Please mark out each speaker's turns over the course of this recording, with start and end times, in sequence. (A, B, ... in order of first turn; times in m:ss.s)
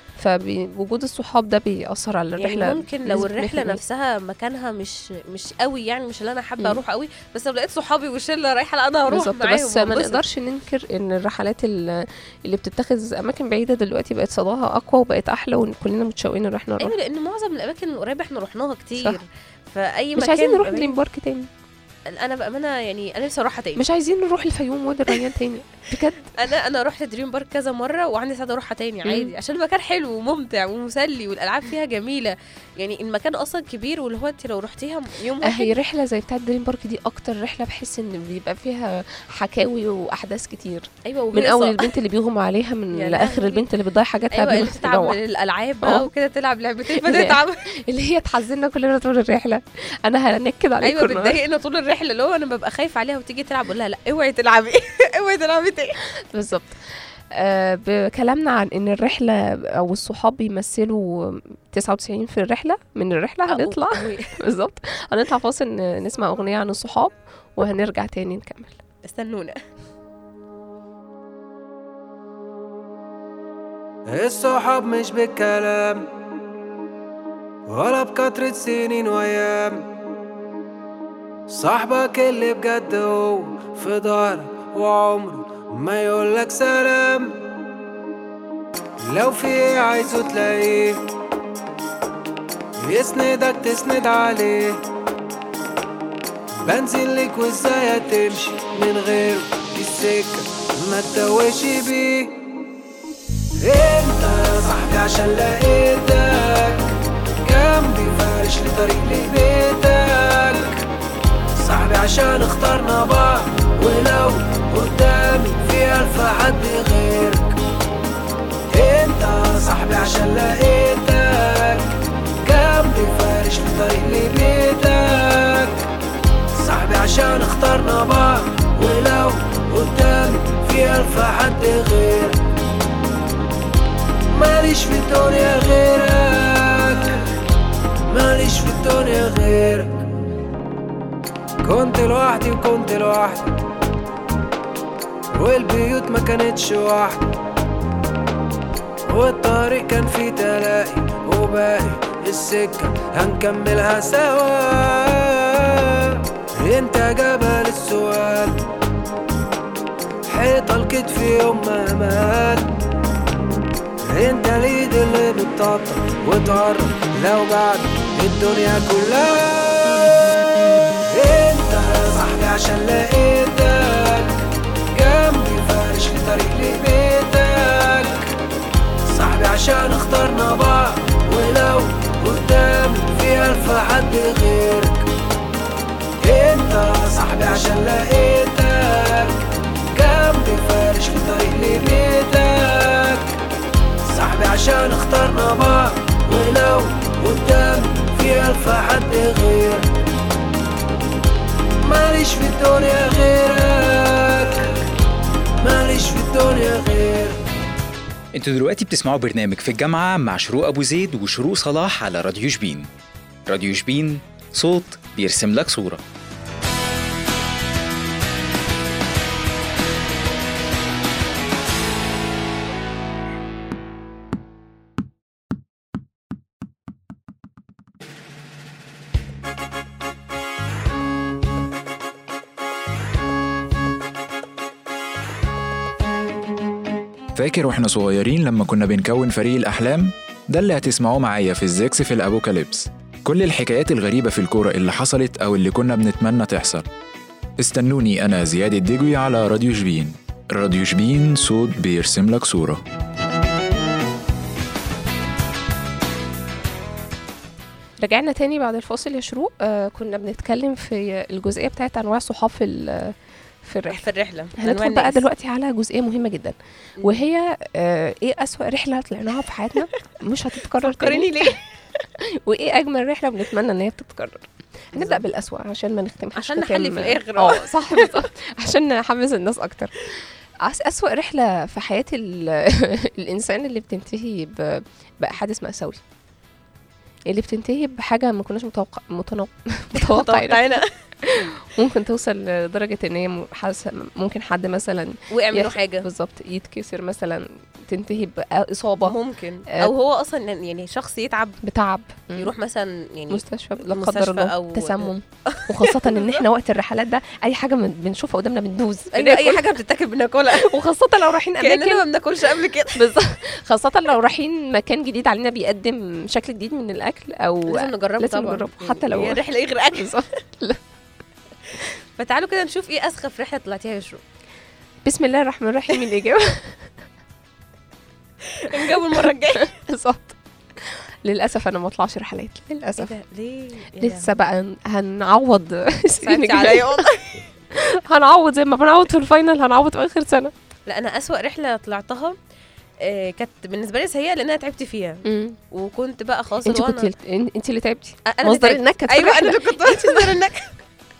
0:00.2-0:03.8 A
0:02.4-0:10.2 B
0:09.1-0:17.0 A
0:16.8-0:20.9 B
0:20.2-0:21.5 A
0:22.1-0:23.8 B
0:23.8-0:26.3 A
0:26.4-0:35.7 B
0:29.0-0:29.3 A
0:35.4-0:45.2 A
0:41.0-0:41.9 B
0:42.9-0:43.7 B
0:44.3-0:47.6 B
0:45.8-0:46.1 A
0:47.0-0:51.4 A
0:50.8-0:56.0 B
0:56.3-0:56.8 A
0:57.3-1:08.8 A
1:03.5-1:04.3 B
1:09.0-1:09.6 B
1:14.1-1:16.1 C
1:17.7-1:19.9 C
1:21.5-1:27.4 C
1:29.1-1:31.0 C
1:32.8-1:34.8 C
1:36.6-1:42.4 C
1:43.6-1:50.8 C
1:51.6-1:57.6 C
1:58.7-2:01.9 C
2:02.4-2:05.8 C
2:06.6-2:12.4 C
2:14.3-2:17.3 C
2:18.1-2:20.0 C
2:21.6-2:23.6 C
2:25.4-2:27.3 C
2:29.1-2:38.6 C
2:40.3-2:42.8 C
2:44.1-2:50.0 C
2:51.1-2:58.3 C
2:59.1-3:05.1 C
3:06.2-3:09.4 C
3:09.9-3:13.3 C
3:14.1-3:19.9 C
3:21.8-3:24.8 C
3:25.6-3:27.4 C
3:28.3-3:32.9 D
3:33.5-3:36.0 D
3:57.4-4:06.8 E
4:07.6-4:12.8 E
4:18.0-4:31.5 A
4:23.9-4:25.2 B
4:30.8-4:31.6 B
4:32.2-4:40.0 A
4:35.0-4:35.2 B
4:36.4-4:38.2 B
4:40.6-4:46.0 A
4:47.3-4:59.2 A
4:50.0-4:50.9 B
4:55.3-4:56.1 B
4:59.0-5:01.6 B
5:01.6-5:02.5 A
5:02.4-5:06.4 B
5:03.3-5:09.7 A
5:09.1-5:10.7 B
5:10.5-5:12.1 A
5:11.6-5:13.1 B
5:13.0-5:19.4 A
5:17.7-5:20.3 B
5:19.9-5:20.8 A
5:22.2-5:24.2 B
5:25.0-5:26.9 A
5:28.5-5:29.7 B
5:29.6-5:33.1 A
5:33.0-5:34.4 B
5:34.0-5:37.0 A
5:36.2-5:37.4 B
5:37.7-5:40.5 A
5:40.9-5:42.4 B
5:43.0-5:47.1 B
5:45.2-5:45.6 A
5:46.6-5:50.4 A
5:48.3-5:50.7 B